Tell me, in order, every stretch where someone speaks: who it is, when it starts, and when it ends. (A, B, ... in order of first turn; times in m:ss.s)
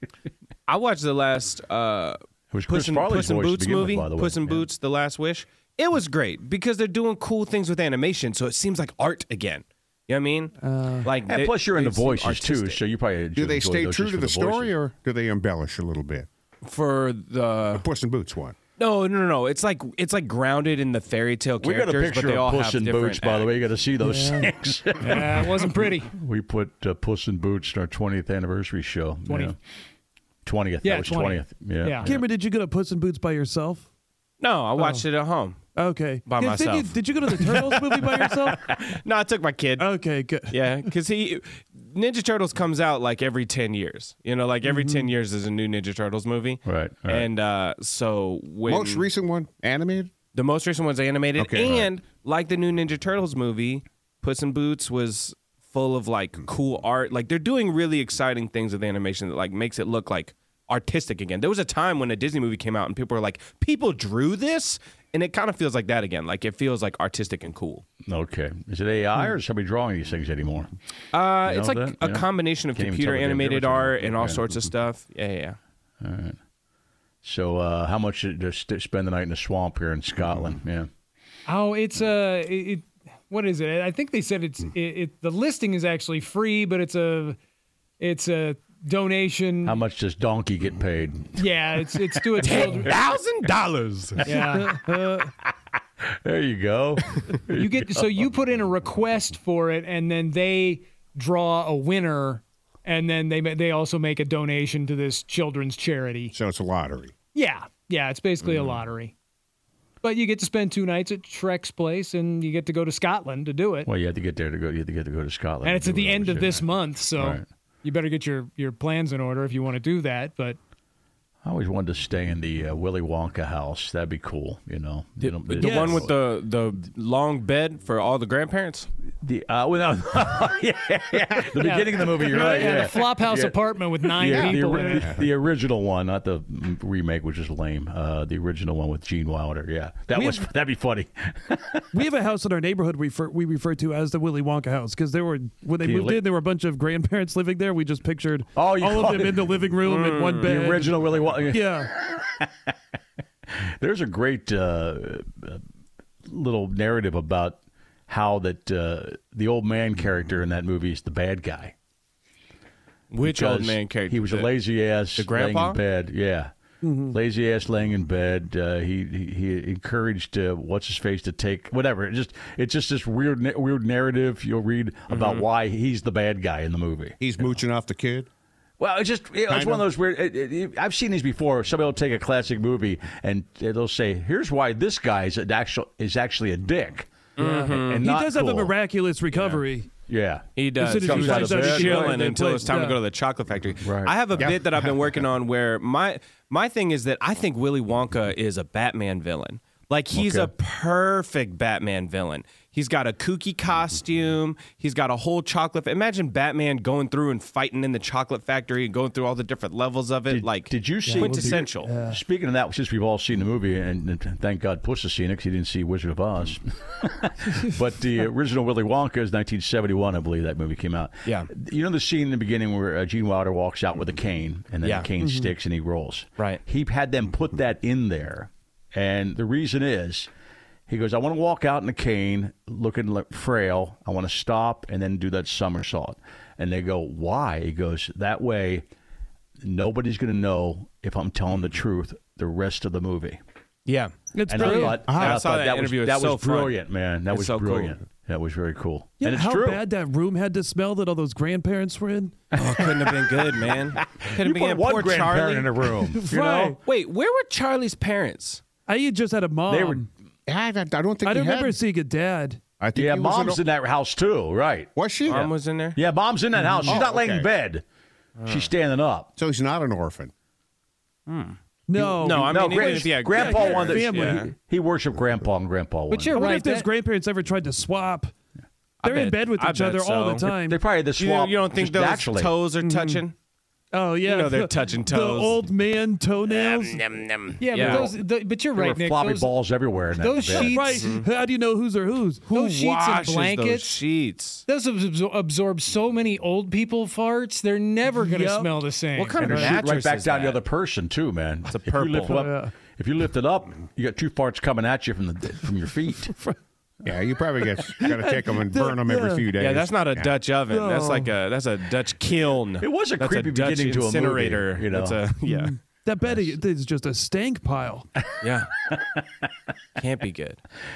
0:00.7-0:10.5 A
0:02.5-0:04.7 B
0:10.6-0:11.1 C
0:11.0-0:12.8 A
0:11.2-0:14.7 B
0:13.3-0:16.3 D
0:16.6-0:17.8 A
0:17.7-0:18.5 D
0:18.8-0:23.8 A
0:21.6-0:29.6 B
0:24.0-0:24.5 C
0:25.0-0:26.1 E
0:29.3-0:29.5 E
0:30.4-0:32.2 B
0:30.8-0:32.1 E
0:32.0-0:33.8 C
0:34.4-0:35.6 A
0:34.8-0:35.0 C
0:35.8-0:38.6 C
0:36.3-0:39.9 A
0:39.8-0:40.9 C
0:40.5-0:49.1 A
0:44.6-0:45.1 C
0:46.6-0:47.3 B
0:48.7-0:50.1 D
0:50.3-1:07.8 A
0:51.4-0:51.9 D
1:08.0-1:10.7 B
1:11.1-1:15.6 A
1:11.4-1:14.4 B
1:16.0-1:16.4 B
1:17.2-1:20.9 B
1:21.5-1:27.4 E
1:28.0-1:29.8 E
1:29.6-1:31.4 B
1:31.4-1:32.9 E
1:32.4-1:34.2 A
1:34.2-1:34.7 E
1:34.2-1:34.6 B
1:34.6-1:35.3 C
1:36.0-1:38.2 B
1:37.5-1:46.3 E
1:46.3-1:47.1 D
1:47.3-1:49.1 E
1:48.4-1:48.8 A
1:50.0-1:53.9 E
1:53.8-1:57.4 B
1:55.6-2:00.6 E
2:01.4-2:06.1 B
2:05.2-2:08.9 A
2:05.6-2:06.0 C
2:09.2-2:21.8 B
2:11.6-2:15.2 E
2:12.3-2:12.8 C
2:14.2-2:15.2 D
2:20.1-2:20.5 C
2:21.9-2:31.9 C
2:25.8-2:26.3 B
2:28.6-2:29.5 B
2:29.8-2:30.5 A
2:30.4-2:32.5 B
2:33.5-2:35.6 B
2:36.2-2:41.7 B
2:43.1-2:45.8 A
2:43.2-2:46.5 B
2:46.8-2:47.2 C
2:47.1-2:57.2 B
2:55.1-2:55.4 A
2:57.2-2:58.3 D
2:58.8-3:07.1 B
2:59.5-2:59.9 D
3:07.4-3:09.9 C
3:07.4-3:08.1 A
3:07.7-3:08.7 B
3:10.1-3:10.4 B
3:10.6-3:32.0 A
3:10.7-3:13.0 C
3:11.0-3:12.2 B
3:13.8-3:14.6 B
3:14.4-3:15.1 D
3:20.1-3:20.5 B
3:30.3-3:50.3 B
3:31.0-3:32.2 C
3:41.2-3:41.5 A
3:44.8-3:45.1 A
3:45.2-3:45.5 C
3:50.9-3:58.8 B
3:59.6-4:03.4 B
4:03.8-4:04.1 A
4:04.3-4:05.2 C
4:04.5-4:09.8 B
4:04.6-4:08.0 A
4:05.1-4:05.4 D
4:09.2-4:12.4 C
4:12.5-4:15.9 A
4:12.5-4:16.7 B
4:16.1-4:16.8 C
4:16.6-4:18.6 A
4:18.9-4:20.1 C
4:19.7-4:20.1 B
4:20.5-4:21.8 D
4:21.2-4:22.6 C
4:22.8-4:23.6 D
4:22.9-4:25.4 B
4:24.9-4:25.5 D
4:25.3-4:26.0 A
4:25.9-4:27.8 B
4:26.5-4:27.0 C
4:26.8-4:27.5 D
4:28.4-4:28.7 A
4:28.4-4:29.3 B
4:29.4-4:30.3 D
4:31.3-4:31.6 A
4:31.9-4:34.4 C
4:32.0-4:36.4 B
4:32.2-4:34.5 A
4:36.1-4:36.9 E
4:36.3-4:38.3 C
4:39.0-4:40.5 A
4:39.0-4:40.8 C
4:40.6-4:42.6 B
4:41.2-4:43.3 A
4:42.8-4:43.2 C
4:43.9-4:47.1 C
4:44.2-4:45.6 A
4:46.4-4:48.1 A
4:47.6-4:49.5 E
4:47.7-4:50.7 B
4:50.1-4:50.9 E
4:50.5-4:51.3 A
4:50.6-4:52.7 C
4:52.5-4:54.6 A
4:52.5-4:54.0 E
4:54.7-4:59.4 E
4:58.1-4:58.8 C
4:59.1-5:00.6 A
4:59.4-5:06.3 B
4:59.4-4:59.8 C
5:01.6-5:02.4 A
5:02.3-5:02.7 C
5:07.0-5:10.5 D
5:07.6-5:09.6 C
5:09.6-5:15.8 A
5:10.6-5:11.3 C
5:12.8-5:15.2 B
5:15.4-5:18.1 C
5:16.2-5:16.5 B
5:18.4-5:18.7 A
5:18.8-5:19.4 B
5:20.0-5:20.6 A